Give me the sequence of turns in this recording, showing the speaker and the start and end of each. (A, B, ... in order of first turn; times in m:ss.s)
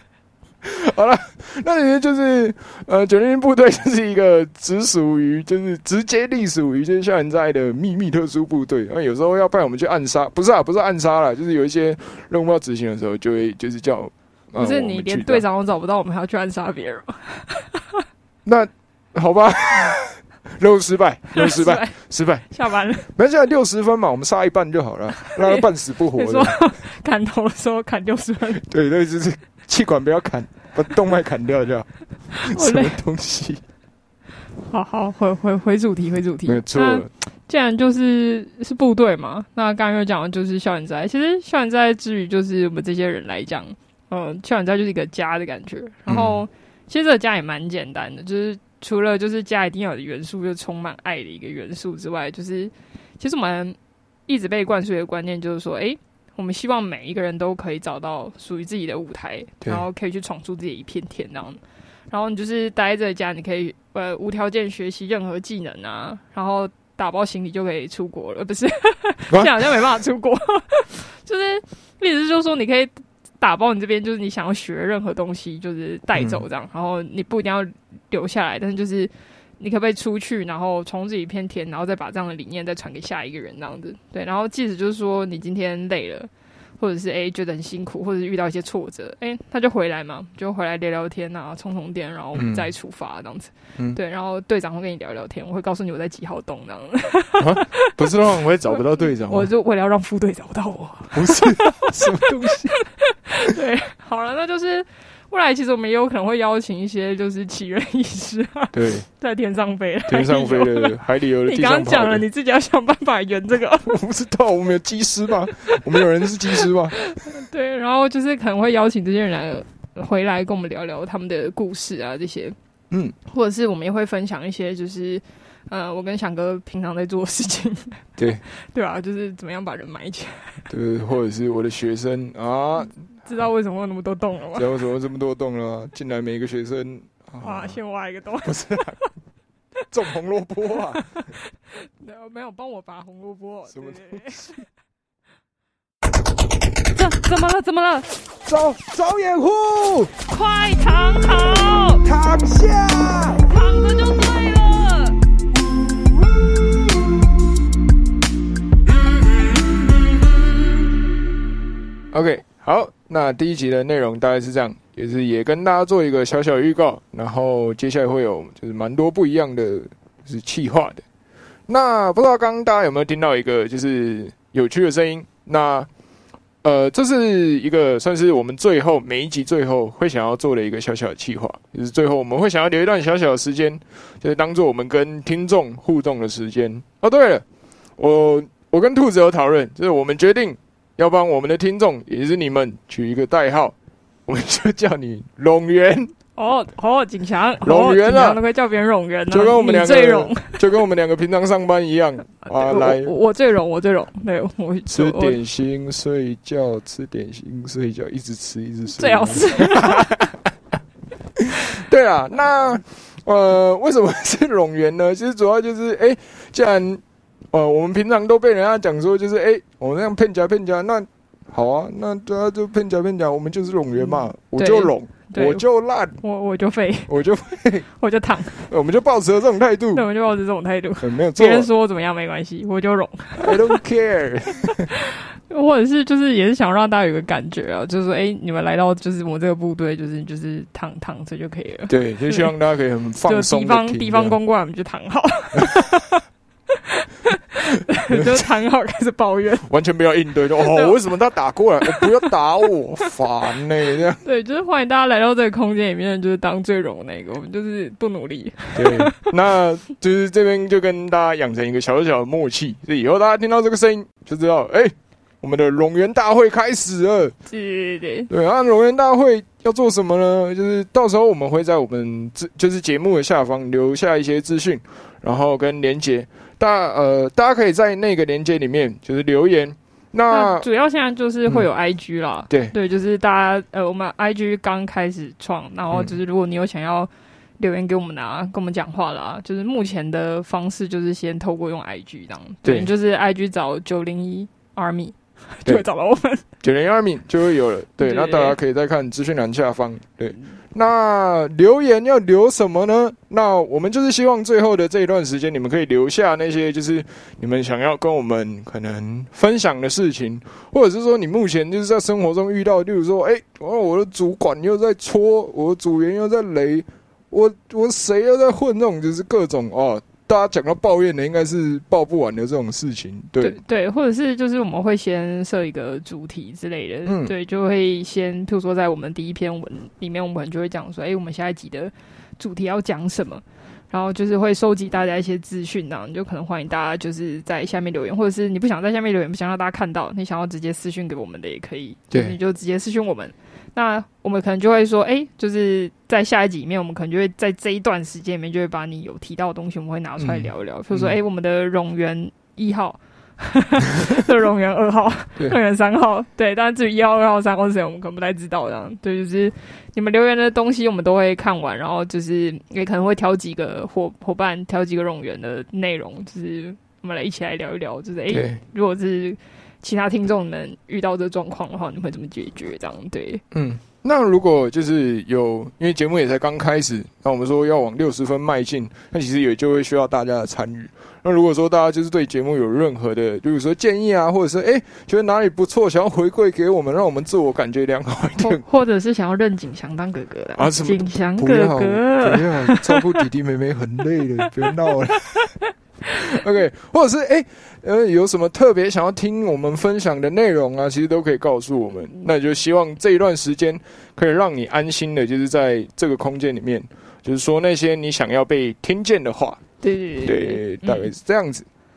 0:00.6-0:15.4 A
0:14.6-0:18.0 B
0:18.4-0:22.5 A
0:21.3-0:22.0 B
0:22.5-0:23.1 B
0:23.0-0:26.6 A
0:25.2-0:28.6 B
0:28.6-0:33.6 A
0:32.4-0:33.0 B
0:34.7-1:37.9 B
0:36.4-0:37.1 A
0:46.1-0:46.4 A
1:16.1-1:16.4 A
1:32.3-1:32.7 A
1:37.4-1:39.5 A
1:38.7-1:54.0 B
1:41.1-1:42.7 A
1:48.7-1:49.1 A
1:50.1-1:52.2 A
1:53.8-1:57.0 A
1:56.6-2:02.6 B
2:03.3-2:10.7 B
2:08.2-2:08.4 A
2:10.7-2:13.0 A
2:13.2-2:14.7 B
2:14.5-2:17.8 A
2:17.4-2:19.0 B
2:18.4-2:19.0 A
2:19.9-2:21.1 A
2:21.0-2:24.6 B
2:23.7-2:24.6 A
2:26.9-2:28.1 B
2:28.4-2:30.1 A
2:30.3-2:32.0 B
2:32.0-2:33.5 A
2:33.4-2:35.2 B
2:42.1-2:51.0 A
2:51.7-2:55.9 A
2:56.6-3:07.4 A
3:08.0-3:13.7 A
3:14.3-3:16.1 A
3:16.4-3:20.6 B
3:17.6-3:18.4 A
3:19.3-3:23.1 A
3:22.4-3:25.4 B
3:24.9-3:30.3 A
3:28.9-3:30.2 B
3:31.4-3:46.2 A
3:43.9-3:45.6 B
3:46.2-3:47.1 B
3:47.1-3:47.8 A
3:48.0-3:48.6 B
3:48.6-3:50.0 A
3:49.9-3:53.8 B
3:51.0-3:51.7 A
3:53.4-3:54.9 A
3:54.9-4:02.5 B
4:01.9-4:04.4 A
4:03.2-4:09.7 B
4:08.1-4:08.4 A
4:09.6-4:14.2 A
4:10.6-4:11.0 B
4:11.8-4:12.3 B
4:14.2-4:19.3 B
4:18.7-4:27.3 A
4:27.5-4:28.3 B
4:28.3-4:40.7 A
4:40.3-4:56.4 B
4:52.6-4:52.9 A
4:56.6-5:23.6 A
4:58.0-4:58.6 B
5:23.4-6:13.4 B
5:27.0-5:27.3 A
5:42.1-5:42.4 A
5:50.2-5:51.2 A
6:08.3-6:08.6 A
6:13.5-6:28.6 A
6:28.4-6:33.1 B
6:30.6-6:35.5 A
6:36.1-6:49.6 A
6:49.8-6:51.1 B
6:50.2-6:51.6 A